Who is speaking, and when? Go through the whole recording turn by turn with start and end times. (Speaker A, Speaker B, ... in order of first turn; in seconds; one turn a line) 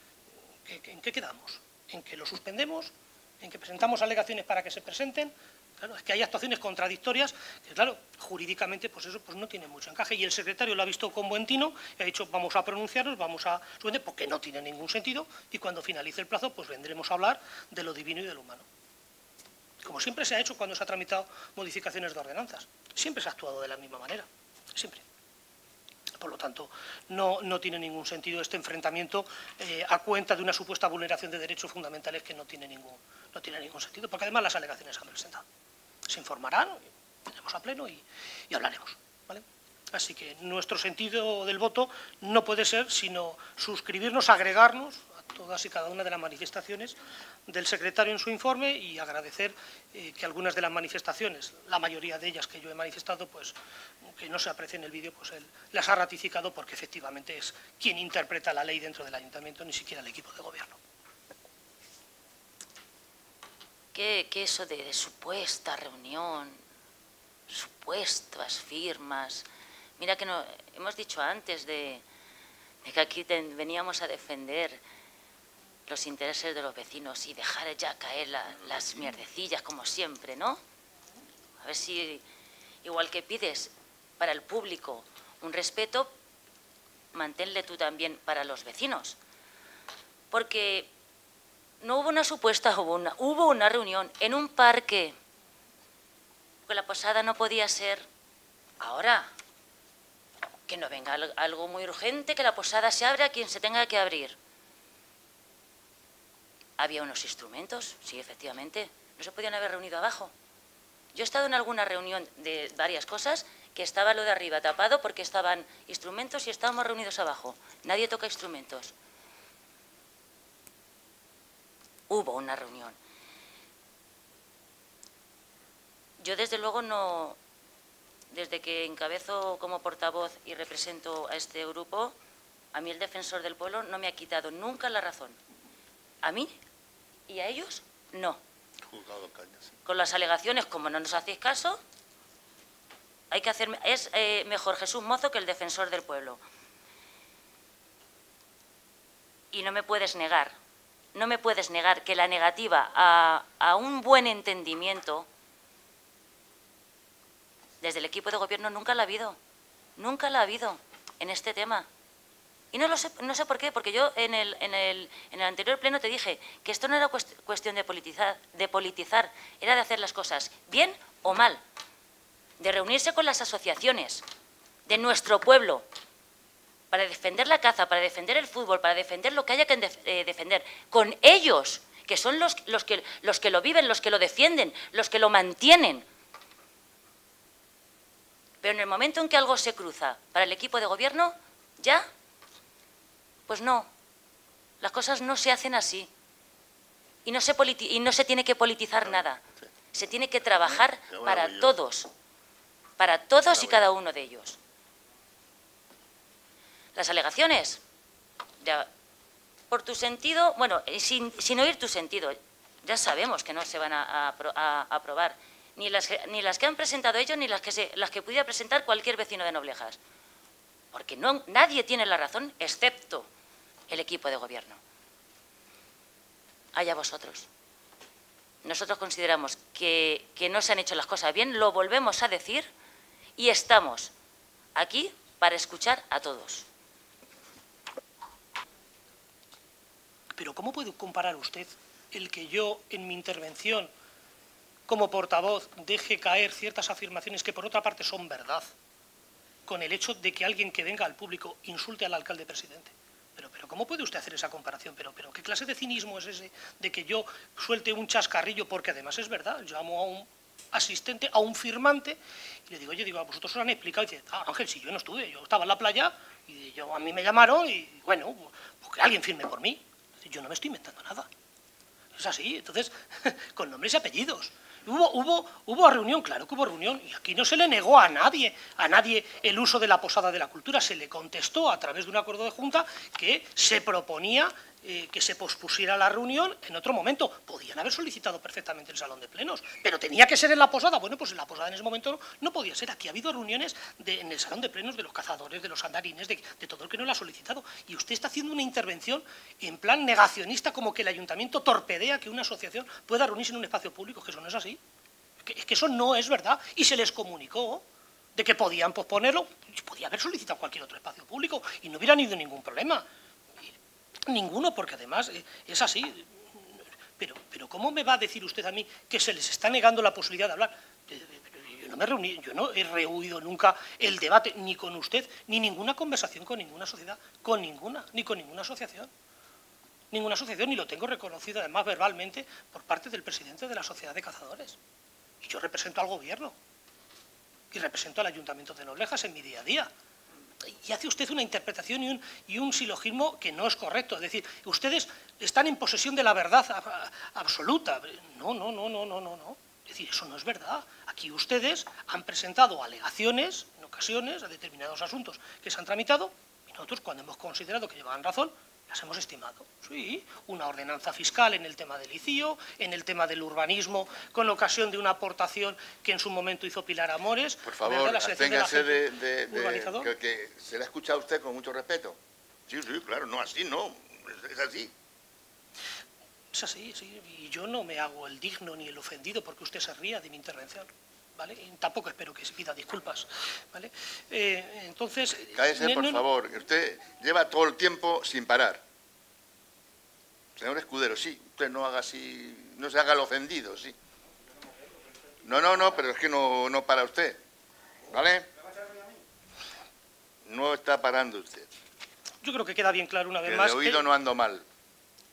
Speaker A: 0.6-18.7
Speaker A: 19.8-25.0
Speaker A: 26.2-35.4
Speaker A: 36.1-47.0
Speaker A: 47.5-53.5
Speaker A: 54.1-60.8
Speaker B: 63.9-66.6
Speaker B: 67.5-69.5
Speaker B: 70.0-72.0
Speaker B: 72.8-74.8
Speaker B: 75.9-80.6
Speaker B: 81.6-82.2
Speaker B: 82.8-86.1
Speaker B: 87.1-89.2
Speaker B: 90.3-90.9
Speaker B: 91.8-95.1
Speaker B: 96.7-98.0
Speaker B: 98.8-99.3
Speaker B: 100.7-104.3
Speaker B: 106.8-110.3
Speaker B: 111.1-118.9
Speaker B: 122.1-123.0
Speaker B: 126.2-127.4
Speaker B: 128.3-132.1
Speaker B: 132.7-135.3
Speaker B: 136.2-136.5
Speaker B: 137.3-138.4
Speaker C: 138.8-139.8
Speaker B: 139.8-141.8
Speaker B: 143.3-146.4
Speaker B: 149.5-150.5
Speaker B: 151.1-155.3
Speaker B: 157.8-159.4
Speaker B: 160.0-161.9
Speaker B: 162.7-171.6
Speaker B: 172.6-174.2
Speaker B: 174.9-175.8
Speaker B: 176.9-186.0
Speaker B: 188.6-192.1
Speaker B: 193.5-193.9
Speaker B: 194.8-196.1
Speaker B: 197.2-199.4
Speaker C: 199.0-199.6
Speaker B: 199.9-202.1
Speaker C: 201.1-201.8
Speaker B: 203.0-204.6
Speaker C: 203.5-203.9
Speaker B: 206.9-207.8
Speaker B: 208.6-208.9
Speaker B: 209.7-220.0
Speaker B: 220.9-223.3
Speaker B: 223.9-224.8
Speaker B: 226.7-227.5
Speaker B: 228.6-232.7
Speaker B: 233.4-234.1
Speaker B: 234.7-236.6
Speaker A: 240.4-243.9
Speaker A: 244.9-248.7
Speaker A: 249.7-271.3
Speaker A: 272.1-304.8
Speaker A: 305.4-313.0
Speaker A: 314.3-329.1
Speaker A: 330.1-334.8
Speaker A: 335.4-336.6
Speaker A: 337.7-339.9
Speaker A: 340.6-370.1
Speaker C: 367.6-374.9
Speaker A: 376.5-386.2
Speaker C: 385.5-388.8
Speaker C: 390.6-393.9
Speaker C: 395.4-397.4
Speaker C: 398.1-398.5
Speaker C: 400.4-401.7
Speaker A: 402.4-404.0
Speaker C: 403.4-404.6